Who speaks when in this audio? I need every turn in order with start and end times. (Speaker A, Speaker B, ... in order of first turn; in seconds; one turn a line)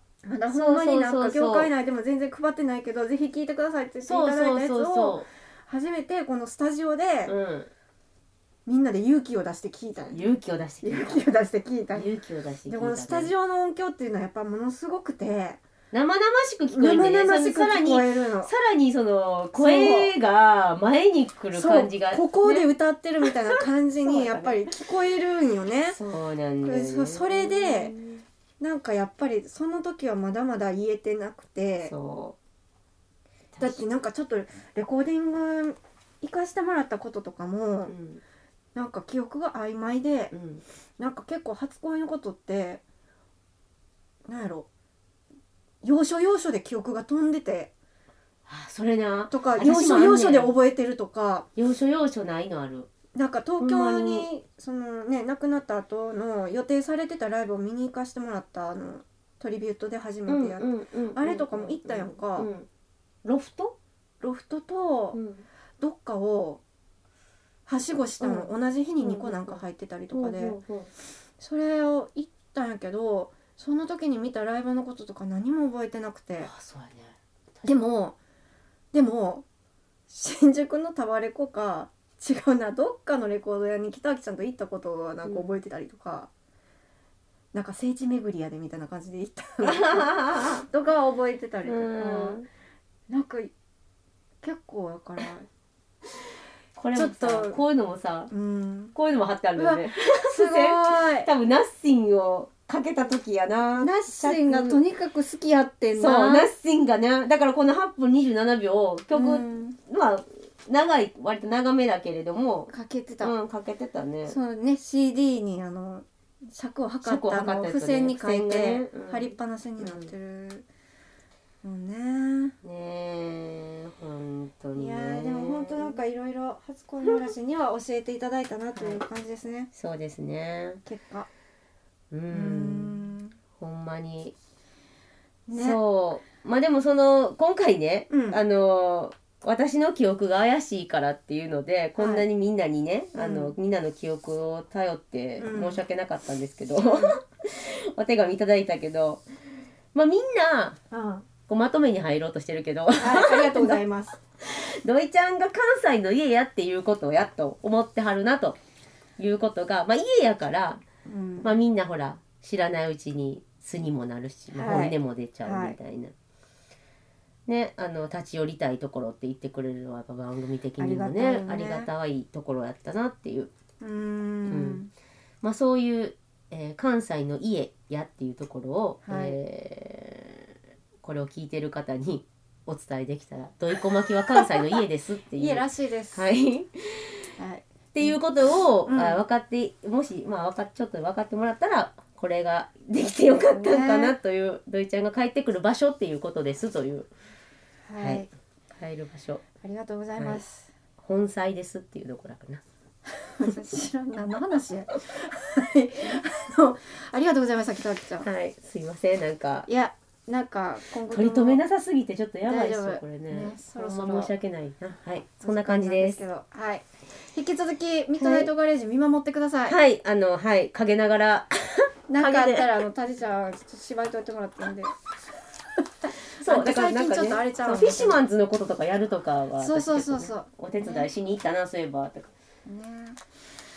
Speaker A: 0.2-7.3
Speaker B: 0.5-1.7
Speaker B: 4.0-5.3
Speaker B: 7.3-7.7
Speaker A: 8.7-10.3
Speaker B: 10.1-11.2
Speaker A: 10.8-12.1
Speaker B: 11.9-13.3
Speaker A: 12.7-15.6
Speaker B: 15.9-22.7
Speaker A: 16.7-18.5
Speaker A: 19.5-20.1
Speaker A: 21.5-26.0
Speaker B: 23.2-24.6
Speaker B: 25.9-28.2
Speaker A: 26.6-27.9
Speaker A: 28.6-31.9
Speaker B: 31.9-32.4
Speaker B: 33.5-33.8
Speaker A: 33.6-37.9
Speaker B: 37.9-38.2
Speaker A: 38.8-40.3
Speaker B: 40.3-40.6
Speaker A: 41.0-42.8
Speaker A: 44.3-44.7
Speaker A: 45.8-47.7
Speaker B: 48.5-50.5
Speaker A: 49.3-51.5
Speaker B: 51.6-52.9
Speaker A: 53.1-62.5
Speaker B: 53.6-54.3
Speaker B: 60.3-62.7
Speaker B: 63.2-63.8
Speaker A: 64.2-65.2
Speaker B: 65.1-65.5
Speaker A: 65.8-66.6
Speaker A: 67.7-70.6
Speaker B: 68.2-70.9
Speaker A: 71.4-76.5
Speaker B: 76.4-77.2
Speaker A: 77.6-78.2
Speaker A: 78.9-79.5
Speaker A: 80.1-86.3
Speaker A: 87.5-92.4
Speaker B: 89.6-90.7
Speaker B: 91.7-92.5
Speaker A: 93.1-93.5
Speaker A: 94.4-95.5
Speaker B: 96.8-98.3
Speaker A: 96.9-97.6
Speaker A: 98.3-99.0
Speaker B: 99.0-104.8
Speaker A: 99.6-101.3
Speaker A: 103.8-106.5
Speaker B: 105.9-112.7
Speaker A: 109.1-109.8
Speaker A: 112.7-113.3
Speaker B: 113.2-114.4
Speaker A: 114.2-120.7
Speaker B: 117.0-120.1
Speaker A: 121.6-122.6
Speaker B: 122.6-126.0
Speaker A: 124.7-129.7
Speaker B: 128.7-129.0
Speaker B: 129.7-130.8
Speaker A: 130.8-131.3
Speaker B: 132.1-133.1
Speaker A: 132.3-133.3
Speaker B: 133.6-134.3
Speaker A: 135.5-135.8
Speaker B: 135.5-149.2
Speaker A: 138.1-138.4
Speaker A: 142.0-142.3
Speaker A: 143.2-143.5
Speaker A: 145.4-145.8
Speaker A: 146.8-147.2
Speaker B: 149.9-150.8
Speaker A: 150.9-151.2
Speaker B: 151.4-153.8
Speaker A: 153.0-154.2
Speaker B: 154.4-158.6
Speaker B: 159.2-160.8
Speaker A: 161.1-161.6
Speaker B: 161.4-166.1
Speaker A: 164.5-165.8
Speaker B: 167.5-173.5
Speaker A: 170.8-171.9
Speaker A: 173.8-174.9
Speaker B: 174.5-174.8
Speaker B: 175.4-187.3
Speaker A: 179.1-179.4
Speaker A: 185.3-186.3
Speaker A: 187.4-188.2
Speaker B: 187.9-197.1
Speaker A: 188.9-189.2
Speaker A: 193.1-194.2
Speaker A: 197.9-198.3
Speaker B: 198.0-199.4
Speaker A: 199.6-200.7
Speaker B: 200.2-200.4
Speaker B: 201.0-202.6
Speaker A: 203.2-208.3
Speaker B: 208.2-209.7
Speaker A: 209.7-211.6
Speaker B: 211.1-216.2
Speaker A: 212.4-214.3
Speaker A: 215.4-219.8
Speaker B: 218.2-218.5
Speaker B: 219.7-222.8
Speaker A: 222.1-224.9
Speaker A: 226.1-228.2
Speaker B: 226.4-232.3
Speaker A: 229.6-231.1
Speaker A: 232.7-233.2